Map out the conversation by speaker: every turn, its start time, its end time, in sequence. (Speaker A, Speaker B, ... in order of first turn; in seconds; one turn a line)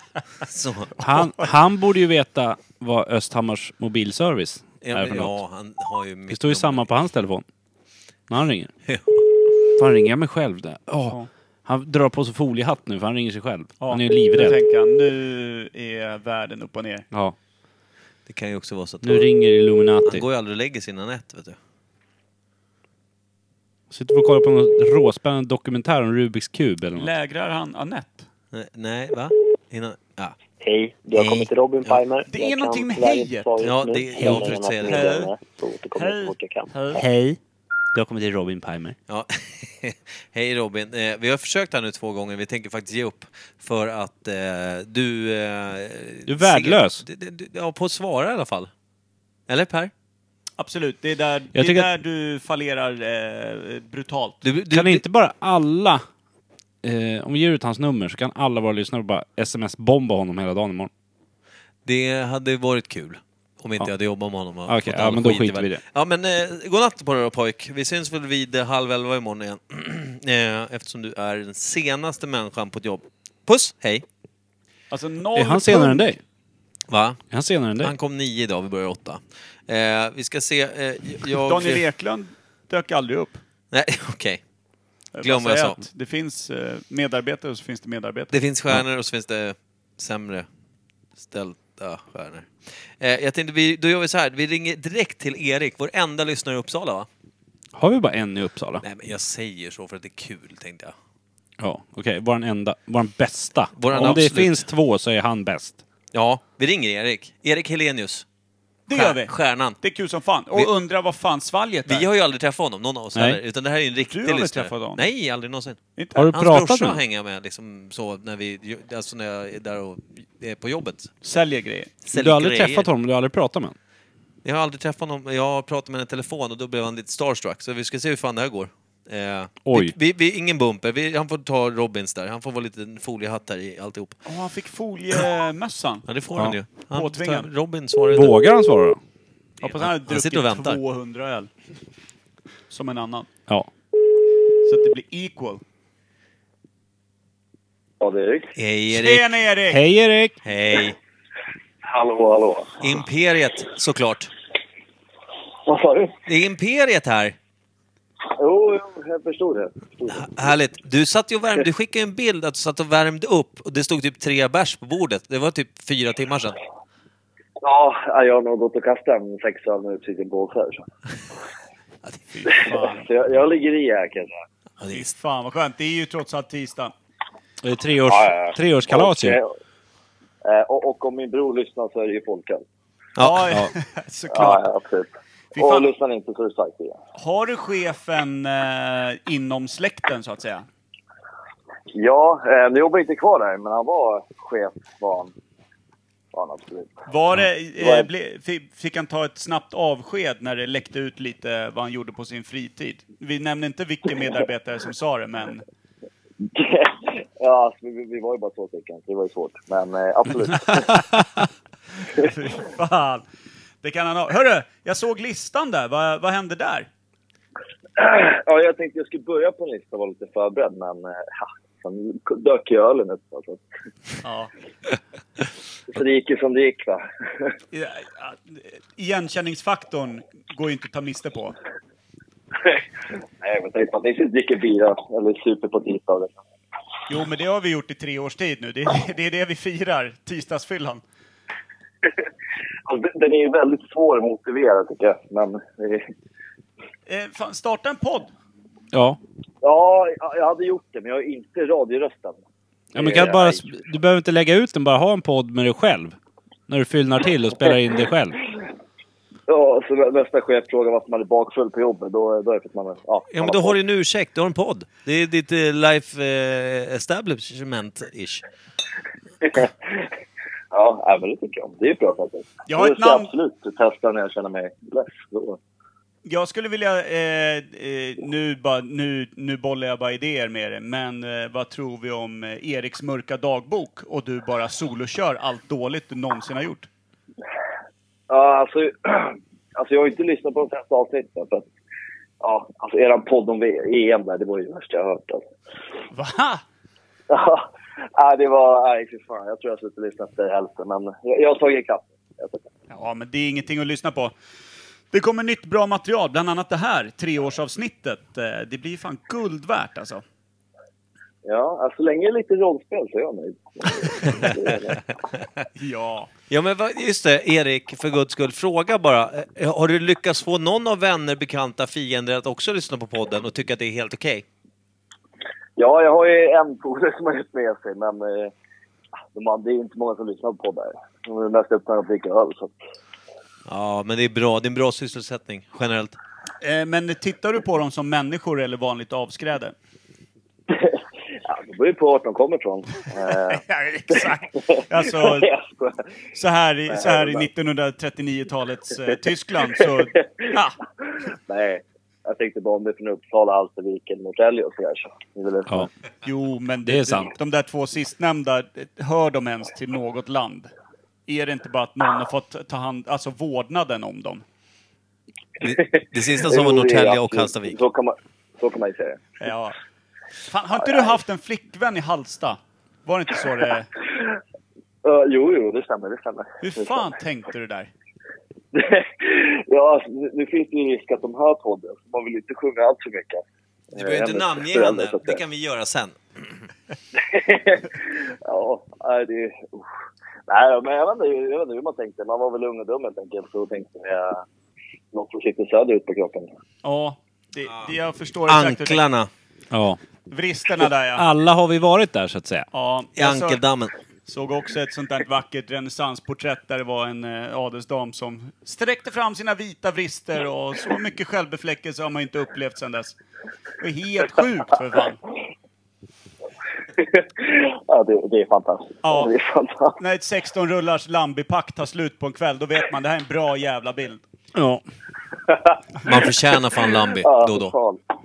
Speaker A: 0.4-1.0
Speaker B: 1.0-5.4
Speaker A: 4.8-6.9
Speaker B: 6.3-7.4
Speaker B: 8.3-8.7
Speaker A: 8.8-9.2
Speaker B: 9.8-14.6
Speaker C: 13.8-17.1
Speaker A: 18.2-19.3
Speaker B: 19.0-20.2
Speaker A: 20.0-21.6
Speaker B: 23.9-27.1
Speaker C: 27.0-28.3
Speaker A: 28.5-30.3
Speaker D: 30.6-36.7
Speaker A: 31.1-32.0
Speaker C: 32.3-33.7
Speaker A: 33.6-35.2
Speaker C: 34.4-35.3
Speaker C: 35.9-37.0
Speaker B: 36.9-37.4
Speaker B: 37.9-39.0
Speaker A: 39.1-48.7
Speaker B: 46.2-47.0
Speaker A: 49.5-49.9
Speaker C: 50.6-54.4
Speaker B: 51.5-51.9
Speaker A: 54.4-55.0
Speaker B: 54.7-56.0
Speaker B: 56.8-60.9
Speaker A: 61.8-74.0
Speaker B: 64.7-65.8
Speaker C: 74.9-76.1
Speaker B: 75.3-76.2
Speaker A: 76.9-77.2
Speaker B: 77.3-77.9
Speaker A: 77.8-81.8
Speaker C: 81.4-83.4
Speaker A: 83.7-84.4
Speaker C: 85.1-88.3
Speaker A: 85.2-85.8
Speaker A: 88.3-90.5
Speaker A: 91.2-97.1
Speaker B: 97.8-98.8
Speaker A: 98.8-100.9
Speaker B: 101.6-105.8
Speaker A: 103.8-104.7
Speaker A: 106.1-108.2
Speaker C: 108.9-112.0
Speaker A: 108.9-109.8
Speaker A: 111.9-121.1
Speaker C: 114.1-115.1
Speaker C: 116.0-116.3
Speaker B: 116.2-117.0
Speaker C: 121.2-121.9
Speaker A: 122.0-122.9
Speaker B: 122.1-123.8
Speaker A: 124.4-134.2
Speaker B: 129.6-129.9
Speaker C: 134.2-136.1
Speaker A: 136.1-138.4
Speaker C: 136.9-137.5
Speaker B: 138.1-139.0
Speaker C: 139.6-141.5
Speaker A: 139.6-140.8
Speaker C: 142.7-143.3
Speaker C: 144.6-145.6
Speaker E: 148.0-148.5
Speaker A: 148.6-149.3
Speaker C: 148.9-149.8
Speaker B: 149.7-150.4
Speaker A: 150.4-151.0
Speaker E: 151.8-152.9
Speaker A: 152.8-154.3
Speaker E: 155.7-156.1
Speaker A: 156.2-157.3
Speaker E: 158.3-160.4
Speaker A: 160.1-166.6
Speaker E: 167.6-170.8
Speaker C: 172.3-173.1
Speaker E: 172.5-174.3
Speaker A: 174.8-175.1
Speaker C: 174.9-176.9
Speaker B: 177.6-179.4
Speaker E: 178.1-179.5
Speaker E: 180.4-182.6
Speaker A: 183.2-183.5
Speaker C: 183.2-184.6
Speaker E: 184.3-187.0
Speaker C: 185.5-185.9
Speaker C: 187.2-190.7
Speaker E: 191.9-195.3
Speaker E: 196.3-196.9
Speaker C: 197.1-205.6
Speaker E: 197.8-198.1
Speaker E: 206.4-211.0
Speaker C: 212.2-213.2
Speaker C: 213.8-216.9
Speaker E: 218.0-223.6
Speaker C: 224.2-224.5
Speaker E: 225.9-227.5
Speaker C: 227.7-231.5
Speaker E: 233.4-236.3
Speaker C: 237.1-241.0
Speaker E: 242.8-246.0
Speaker C: 247.1-248.3
Speaker B: 248.9-249.2
Speaker E: 249.6-252.4
Speaker B: 252.9-256.1
Speaker E: 252.9-253.7
Speaker B: 256.7-258.4
Speaker E: 259.5-263.8
Speaker A: 263.3-268.4
Speaker E: 269.5-270.0
Speaker E: 270.7-275.6
Speaker C: 272.7-273.3
Speaker C: 276.2-286.9
Speaker E: 288.3-291.7
Speaker E: 292.4-295.4
Speaker C: 296.1-296.6
Speaker E: 297.3-302.6
Speaker C: 302.9-304.3
Speaker C: 305.1-310.2
Speaker E: 311.4-315.0
Speaker C: 315.8-316.3
Speaker A: 316.5-324.4
Speaker E: 325.8-328.5
Speaker E: 329.3-332.7
Speaker A: 333.7-336.2
Speaker C: 336.6-339.7
Speaker E: 340.7-346.0
Speaker C: 343.3-345.5
Speaker C: 346.3-350.8
Speaker E: 346.9-347.5
Speaker E: 349.6-350.5
Speaker E: 351.5-355.9
Speaker C: 356.2-360.7
Speaker B: 356.8-357.3
Speaker C: 361.3-364.4
Speaker A: 365.6-367.8
Speaker E: 365.6-369.2
Speaker C: 369.4-369.8
Speaker C: 370.5-373.9
Speaker E: 370.7-371.2
Speaker E: 375.0-377.1
Speaker C: 376.6-377.9
Speaker E: 378.7-385.4
Speaker A: 383.9-386.5
Speaker E: 387.1-389.8
Speaker E: 390.5-394.4
Speaker E: 395.1-396.5
Speaker C: 396.8-399.0
Speaker A: 398.5-399.3
Speaker B: 399.7-400.0
Speaker C: 400.3-401.2
Speaker B: 401.1-402.7
Speaker C: 402.7-403.6
Speaker A: 403.1-403.9
Speaker C: 404.3-413.1
Speaker C: 413.8-415.2
Speaker E: 417.0-420.0
Speaker C: 419.0-419.3
Speaker C: 420.0-424.2
Speaker B: 424.5-424.8
Speaker A: 426.0-427.7
Speaker E: 427.1-428.0